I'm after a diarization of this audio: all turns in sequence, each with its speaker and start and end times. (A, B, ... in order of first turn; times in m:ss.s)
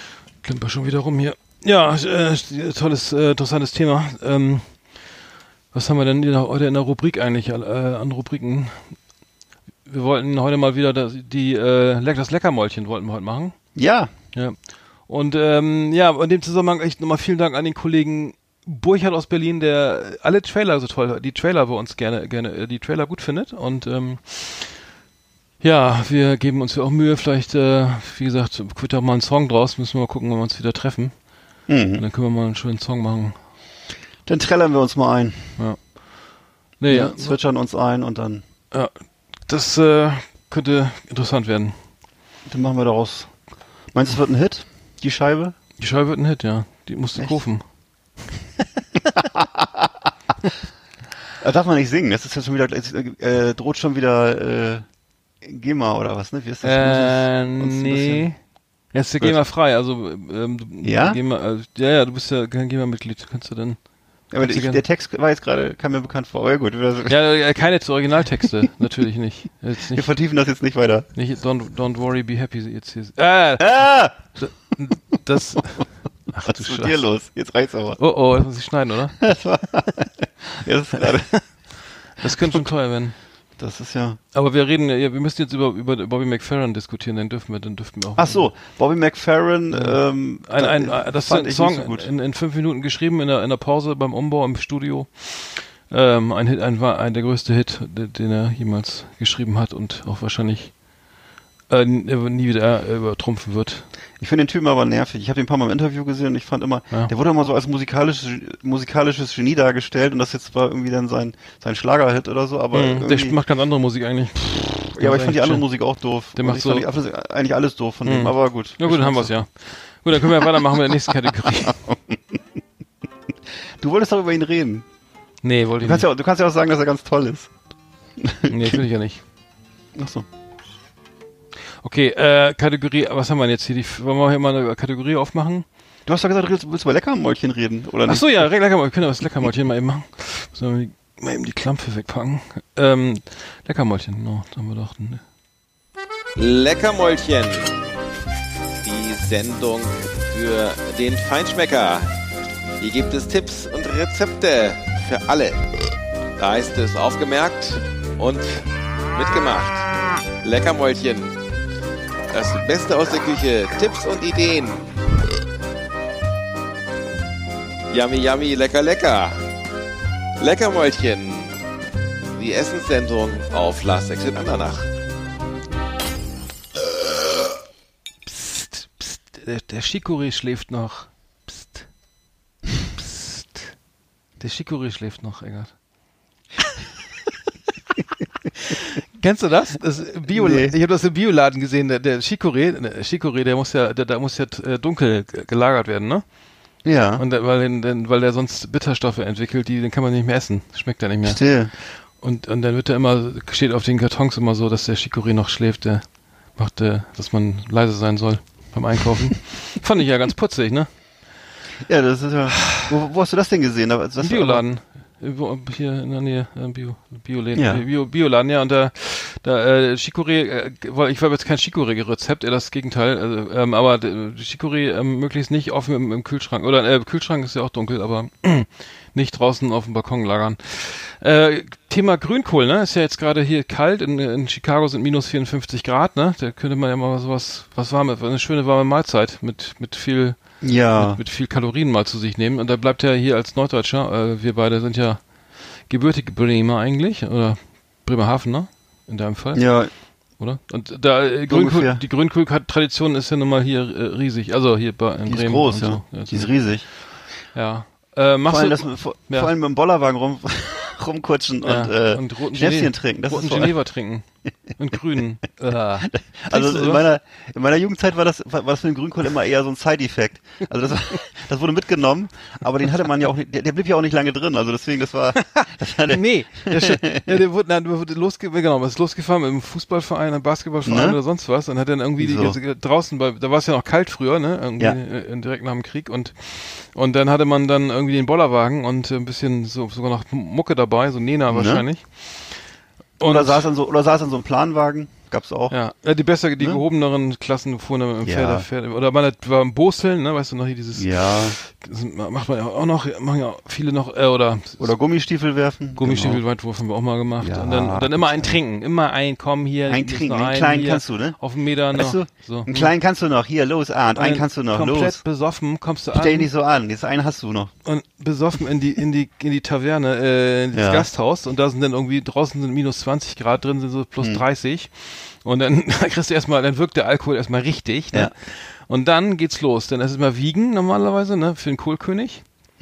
0:00.4-0:05.2 A
0:05.7-0:09.1 A
0:09.8-0:13.8 A
0:13.8-0:14.1 B
0:14.3-0:24.8 A
0:25.6-0:33.4 A
0:31.7-0:32.0 B
0:34.3-0:35.6 B
0:35.6-0:37.4 A
0:36.9-0:38.4 B
0:38.7-0:41.9 A
0:42.5-0:45.6 B
0:45.8-0:47.6 A
0:49.2-0:49.9 B
0:51.4-0:54.9 B
0:55.4-0:58.5 B
0:56.6-1:04.8 A
1:00.8-1:01.2 B
1:04.3-1:07.2 B
1:07.1-1:10.1 A
1:09.9-1:11.1 B
1:11.1-1:17.0 A
1:13.6-1:14.7 B
1:16.4-1:18.0 B
1:18.0-1:19.2 A
1:19.2-1:21.7 B
1:21.3-1:23.2 A
1:23.6-1:24.2 B
1:24.3-1:28.5 A
1:28.2-1:32.1 B
1:29.7-1:40.9 A
1:41.7-1:43.9 A
1:44.2-1:53.4 B
1:52.7-1:55.7 A
1:55.0-1:59.4 B
1:56.4-1:56.9 A
1:58.1-2:01.8 A
2:00.4-2:01.1 B
2:01.6-2:02.1 B
2:03.8-2:04.8 B
2:05.4-2:06.1 A
2:05.8-2:07.6 B
2:08.2-2:08.8 B
2:08.5-2:09.2 A
2:10.0-2:10.3 B
2:11.8-2:15.7 A
2:16.1-2:18.5 B
2:18.1-2:25.2 A
2:26.4-2:27.7 C
2:28.8-2:32.1 C
2:32.8-2:35.7 C
2:36.4-2:39.9 C
2:40.4-2:41.4 C
2:42.3-2:44.9 C
2:47.9-2:49.4 C
2:50.4-2:51.6 C
2:52.3-2:54.9 C
2:58.3-3:02.0 A
3:03.0-3:03.8 A
3:04.4-3:05.8 A
3:08.7-3:31.0 A
3:10.3-3:10.8 B
3:16.8-3:17.2 B
3:21.2-3:21.7 B
3:31.8-3:34.7 B
3:34.2-4:16.7 A
3:37.6-3:37.8 B
4:00.6-4:01.2 B
4:09.6-4:09.9 B
4:11.5-4:12.0 B
4:15.3-4:16.9 B
4:17.5-4:19.5 A
4:18.5-4:23.8 B
4:21.6-4:27.1 A
4:26.1-4:37.3 B
4:35.6-4:53.7 A
4:40.9-4:41.2 B
4:42.2-4:42.6 B
4:51.5-4:51.9 B
4:53.2-4:55.8 B
4:55.7-5:05.0 A
4:56.6-4:56.8 B
4:58.2-4:58.7 B
5:01.0-5:01.6 B
5:04.8-5:06.4 B
5:06.0-5:12.9 A
5:07.4-5:08.6 B
5:09.9-5:11.4 B
5:11.9-5:15.2 B
5:14.2-5:16.5 A
5:16.2-5:17.7 B
5:17.8-5:32.7 A
5:20.8-5:21.1 B